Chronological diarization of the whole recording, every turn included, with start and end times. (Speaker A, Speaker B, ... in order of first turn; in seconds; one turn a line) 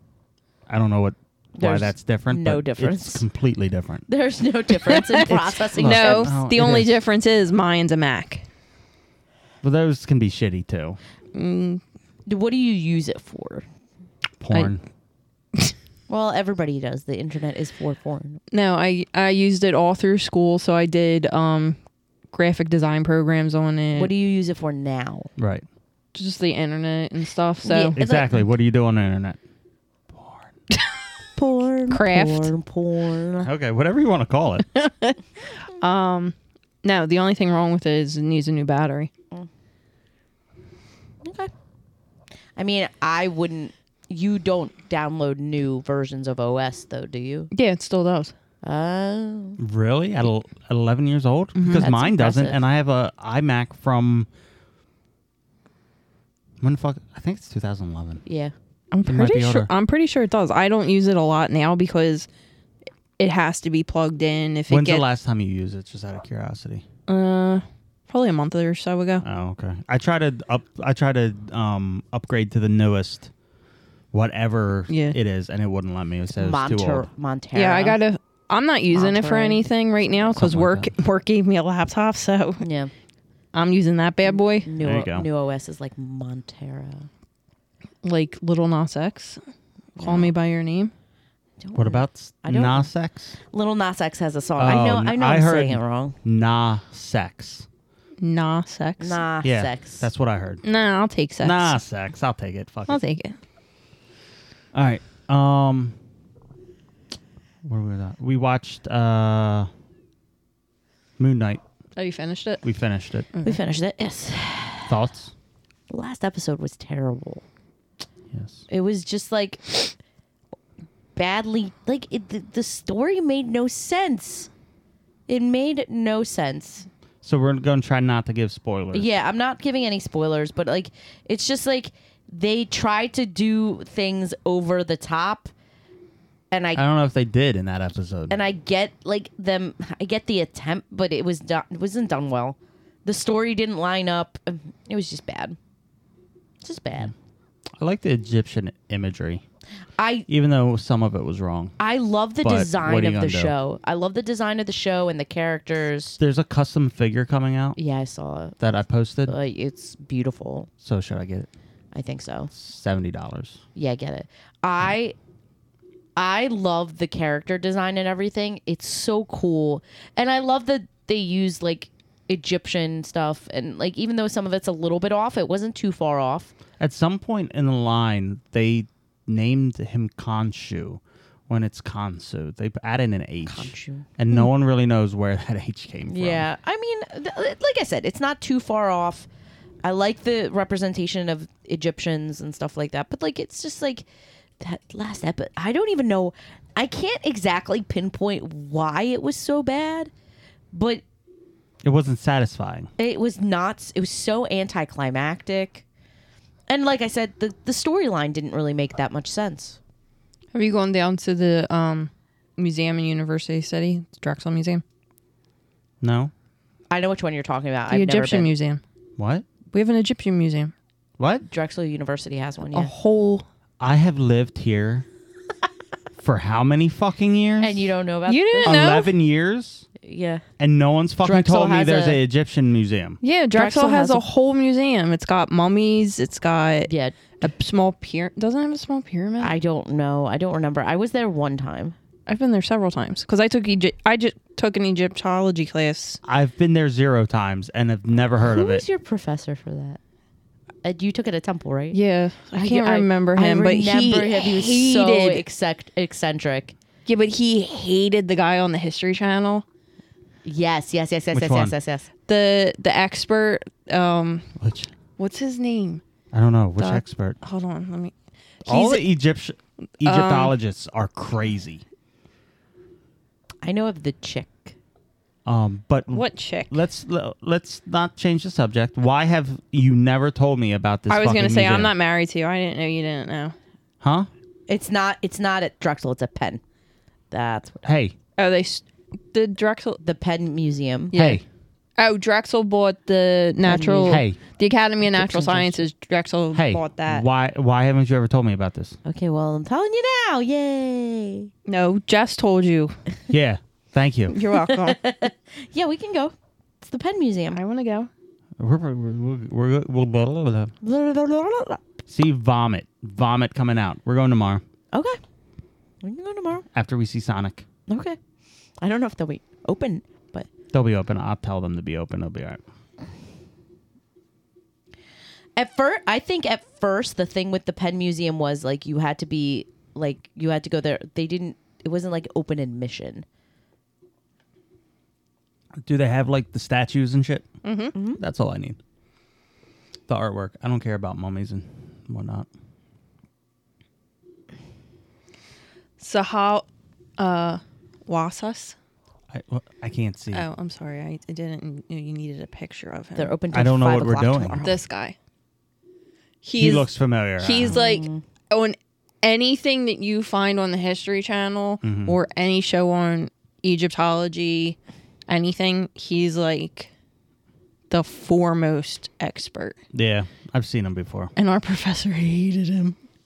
Speaker A: 0.7-4.1
Speaker B: 1.6-3.2
Speaker B: 4.1-6.3
Speaker C: 4.9-8.4
Speaker A: 5.8-6.9
Speaker A: 9.6-11.0
Speaker C: 11.3-11.8
Speaker B: 12.3-13.7
Speaker A: 14.4-14.8
Speaker B: 16.1-18.4
Speaker C: 18.5-21.8
Speaker C: 22.3-24.1
Speaker B: 23.9-25.3
Speaker A: 25.4-25.7
Speaker C: 26.1-28.0
Speaker B: 27.6-28.4
Speaker A: 28.0-29.4
Speaker A: 30.1-30.5
Speaker B: 31.4-33.5
Speaker C: 31.9-32.5
Speaker A: 33.4-34.7
Speaker C: 34.7-39.1
Speaker B: 41.2-41.5
Speaker B: 42.6-47.5
Speaker C: 47.5-48.3
Speaker B: 48.6-49.6
Speaker A: 49.6-54.3
Speaker C: 51.6-51.9
Speaker B: 51.8-52.6
Speaker A: 56.6-58.2
Speaker B: 58.3-58.5
Speaker C: 58.9-62.3
Speaker A: 59.0-59.7
Speaker C: 63.2-65.0
Speaker A: 64.7-66.8
Speaker C: 67.1-69.2
Speaker A: 69.2-73.3
Speaker A: 74.1-77.1
Speaker C: 74.9-75.2
Speaker B: 76.4-78.0
Speaker C: 77.5-82.7
Speaker B: 78.9-79.7
Speaker A: 80.4-80.9
Speaker B: 82.6-82.9
Speaker C: 83.5-84.7
Speaker B: 84.3-87.1
Speaker A: 84.8-85.3
Speaker C: 88.0-89.4
Speaker B: 90.0-90.3
Speaker C: 90.0-90.9
Speaker B: 91.6-92.9
Speaker A: 91.8-93.4
Speaker B: 93.5-96.2
Speaker A: 94.6-97.7
Speaker C: 98.2-99.2
Speaker B: 99.0-100.1
Speaker A: 99.4-100.6
Speaker C: 100.6-101.8
Speaker A: 101.4-103.0
Speaker C: 102.9-103.4
Speaker A: 104.7-106.0
Speaker A: 107.6-109.7
Speaker A: 111.2-111.6
Speaker C: 112.0-112.6
Speaker A: 112.6-113.3
Speaker C: 113.3-113.6
Speaker B: 113.4-114.9
Speaker A: 114.9-115.3
Speaker B: 115.9-117.4
Speaker A: 118.3-118.6
Speaker B: 118.7-120.0
Speaker B: 121.2-124.5
Speaker B: 125.3-126.9
Speaker A: 127.2-129.1
Speaker B: 128.9-135.5
Speaker B: 136.5-136.8
Speaker A: 136.8-138.4
Speaker B: 138.3-145.6
Speaker B: 146.6-147.1
Speaker A: 147.8-149.4
Speaker B: 150.0-150.3
Speaker A: 150.3-151.8
Speaker B: 151.8-156.2
Speaker A: 152.4-153.6
Speaker A: 156.2-157.8
Speaker B: 157.8-158.6
Speaker A: 158.6-159.3
Speaker B: 159.3-160.7
Speaker A: 160.8-161.5
Speaker B: 161.9-162.5
Speaker A: 162.5-163.6
Speaker B: 163.8-165.2
Speaker B: 166.2-176.5
Speaker A: 176.8-186.5
Speaker B: 183.5-184.1
Speaker B: 186.1-189.3
Speaker B: 189.8-194.1
Speaker B: 194.6-200.1
Speaker B: 200.7-201.0
Speaker A: 201.8-202.9
Speaker B: 203.0-205.8
Speaker B: 206.7-209.8
Speaker C: 210.5-214.8
Speaker A: 216.0-216.3
Speaker B: 216.9-218.5
Speaker C: 217.9-218.8
Speaker A: 219.2-219.4
Speaker C: 219.7-220.7
Speaker A: 221.2-221.5
Speaker B: 221.5-222.9
Speaker C: 222.7-223.4
Speaker A: 223.8-225.1
Speaker A: 226.2-227.8
Speaker B: 227.6-229.0
Speaker C: 228.3-229.1
Speaker A: 228.6-229.9
Speaker B: 230.0-230.4
Speaker A: 230.6-233.2
Speaker B: 231.2-232.2
Speaker C: 233.2-239.5
Speaker B: 233.5-234.2
Speaker B: 236.9-237.2
Speaker B: 239.4-242.0
Speaker C: 242.3-246.2
Speaker A: 246.2-248.8
Speaker B: 248.4-250.0
Speaker B: 250.8-252.0
Speaker C: 251.9-255.4
Speaker B: 252.5-256.8
Speaker C: 257.1-259.6
Speaker B: 260.4-262.1
Speaker A: 261.3-261.7
Speaker C: 262.3-264.5
Speaker A: 264.6-264.9
Speaker C: 265.2-266.0
Speaker A: 266.3-267.4
Speaker C: 266.8-268.1
Speaker C: 268.6-269.1
Speaker A: 268.7-271.8
Speaker C: 270.0-270.5
Speaker B: 273.6-274.8
Speaker A: 275.5-281.9
Speaker C: 276.1-276.8
Speaker C: 281.1-283.6
Speaker A: 284.0-284.3
Speaker B: 284.7-286.6
Speaker B: 287.3-287.8
Speaker A: 287.8-288.1
Speaker C: 288.4-290.0
Speaker B: 290.0-291.1
Speaker C: 291.1-291.4
Speaker A: 291.1-291.4
Speaker C: 292.0-297.2
Speaker B: 293.6-294.2
Speaker A: 294.1-294.4
Speaker B: 295.1-295.9
Speaker A: 296.5-299.0
Speaker B: 299.1-301.5
Speaker C: 301.7-302.9
Speaker A: 303.3-304.4
Speaker C: 304.3-305.0
Speaker B: 304.5-307.6
Speaker C: 307.5-308.1
Speaker A: 308.6-310.7
Speaker B: 310.8-311.8
Speaker A: 312.1-314.6
Speaker B: 314.9-315.2
Speaker B: 316.0-316.7
Speaker A: 316.7-317.6
Speaker B: 317.9-318.2
Speaker B: 318.8-320.5
Speaker A: 320.7-322.6
Speaker B: 325.6-333.2
Speaker A: 335.8-337.5
Speaker C: 337.6-337.9
Speaker B: 337.9-338.2
Speaker A: 338.2-338.8
Speaker A: 340.1-342.5
Speaker C: 346.0-346.6
Speaker C: 347.2-348.8
Speaker A: 349.3-350.5
Speaker C: 350.3-353.3
Speaker B: 353.1-354.8
Speaker A: 353.5-354.6
Speaker C: 354.6-355.1
Speaker C: 356.4-364.8
Speaker A: 356.6-357.8
Speaker B: 357.7-358.2
Speaker A: 361.8-362.2
Speaker C: 365.3-366.9
Speaker C: 367.9-369.8
Speaker A: 369.9-371.3
Speaker C: 371.4-373.0